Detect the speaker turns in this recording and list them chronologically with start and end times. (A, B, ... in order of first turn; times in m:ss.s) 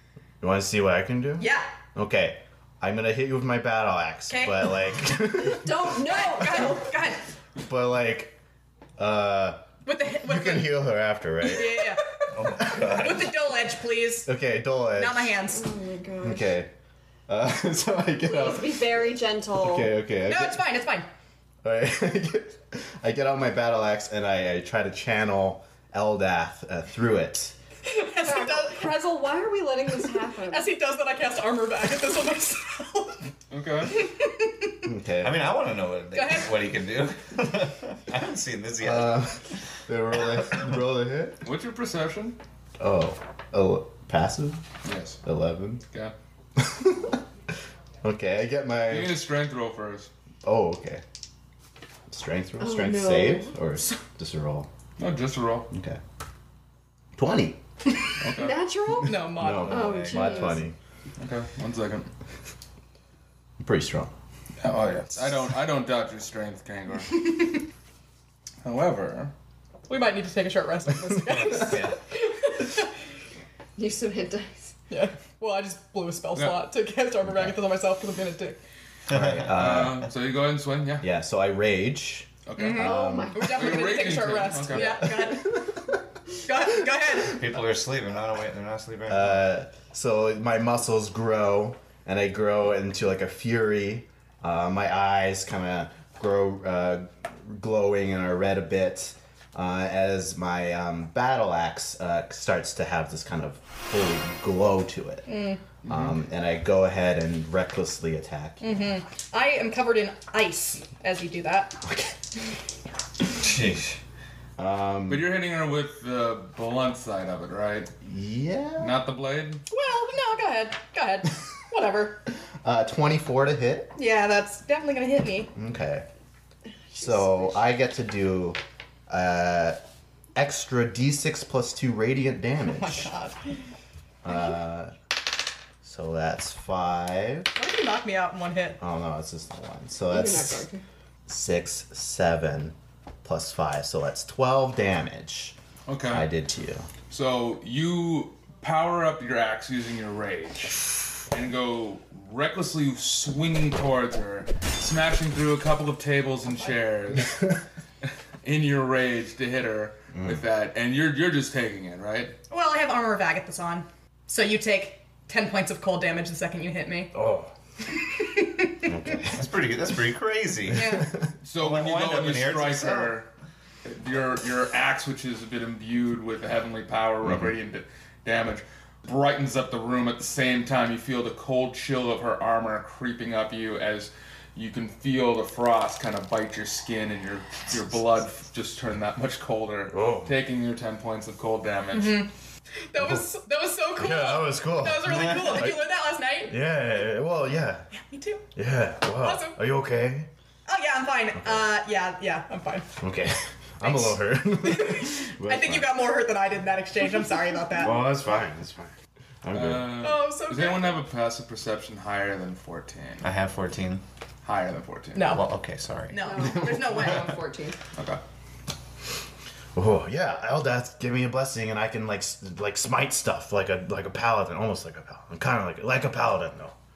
0:00.4-0:05.9 A
0:01.4-0:01.7 B
0:04.3-0:04.7 B
0:05.3-0:06.9 C
0:05.9-0:07.2 B
0:07.6-0:08.4 A
0:09.0-0:09.6 A
0:09.8-0:10.8 B
0:10.2-0:11.8 A
0:11.4-0:14.3 B
0:12.3-0:13.3 D
0:14.2-0:15.3 A
0:14.9-0:15.7 B
0:15.5-0:16.6 C
0:16.2-0:16.7 A
0:17.3-0:19.0 A
0:18.2-0:20.0 C
0:19.5-0:20.6 A
0:20.2-0:21.1 B
0:21.6-0:27.6 A
0:27.8-0:29.0 B
0:28.2-0:30.7 C
0:30.5-0:33.3 B
0:33.5-0:34.0 E
0:33.9-0:34.8 B
0:34.8-0:35.4 A
0:35.2-0:39.2 D
0:36.1-0:36.6 B
0:38.8-0:41.4 A
0:41.4-0:42.4 E
0:42.8-0:44.6 A
0:44.8-0:45.2 E
0:45.2-0:45.8 A
0:46.6-0:47.2 A
0:48.0-0:49.2 A
0:48.9-0:50.1 E
0:50.4-0:51.0 A
0:52.1-0:54.7 A
0:52.6-0:53.6 C
0:55.0-0:55.7 E
0:55.7-0:56.0 A
0:57.2-0:57.6 A
0:58.2-0:58.6 E
0:58.3-1:00.6 C
0:59.0-0:59.9 B
0:59.2-1:00.8 A
0:59.7-1:00.5 D
1:01.2-1:02.1 E
1:03.6-1:04.1 A
1:04.6-1:07.3 E
1:08.6-1:09.3 E
1:09.9-1:12.0 B
1:13.8-1:14.7 C
1:14.9-1:18.6 B
1:19.1-1:19.9 D
1:19.1-1:20.1 A
1:19.4-1:21.1 E
1:21.0-1:23.5 A
1:22.4-1:25.0 E
1:22.6-1:25.7 B
1:22.8-1:24.1 C
1:24.8-1:25.1 A
1:26.4-1:27.4 B
1:27.2-1:29.5 D
1:29.1-1:45.3 A
1:45.2-1:45.6 B
1:45.8-1:46.1 E
1:45.9-1:48.6 A
1:48.6-1:51.8 B
1:51.8-1:52.1 A
1:53.4-1:54.0 D
1:54.6-1:55.3 A
1:55.1-1:57.9 E
1:58.0-1:59.0 A
1:58.8-1:59.6 E
1:59.7-2:02.2 B
2:02.6-2:03.9 A
2:03.9-2:05.5 B
2:05.6-2:06.0 A
2:06.9-2:07.5 C
2:07.0-2:09.8 A
2:10.3-2:13.1 A
2:12.6-2:13.4 B
2:14.2-2:14.9 A
2:15.8-2:17.5 A
2:17.5-2:18.8 B
2:18.8-2:20.6 A
2:20.1-2:20.8 C
2:21.3-2:26.9 A
2:25.9-2:26.3 E
2:27.1-2:37.4 E
2:38.4-2:42.4 E
2:40.1-2:40.4 A
2:42.5-2:47.1 B
2:47.1-2:47.5 A
2:48.2-2:48.8 B
2:48.8-2:49.4 A
2:49.3-2:51.0 D
2:50.7-2:51.1 B
2:51.4-2:53.3 E
2:51.6-2:53.2 D
2:53.8-3:12.2 E
3:09.9-3:10.3 A
3:11.9-3:12.3 B
3:12.9-3:16.6 B
3:14.0-3:15.8 A
3:16.4-3:17.9 A
3:17.9-3:18.5 B
3:18.6-3:20.3 A
3:19.1-3:19.6 B
3:20.7-3:23.0 B
3:23.0-3:25.9 A
3:23.8-3:28.0 B
3:27.7-3:28.9 A
3:29.4-3:30.1 A
3:29.5-3:33.3 E
3:30.0-3:31.0 B
3:33.2-3:34.0 D
3:34.4-3:35.4 E
3:35.1-3:35.4 B
3:35.2-3:36.2 D
3:36.1-3:37.4 B
3:36.2-3:37.8 C
3:39.7-3:46.7 A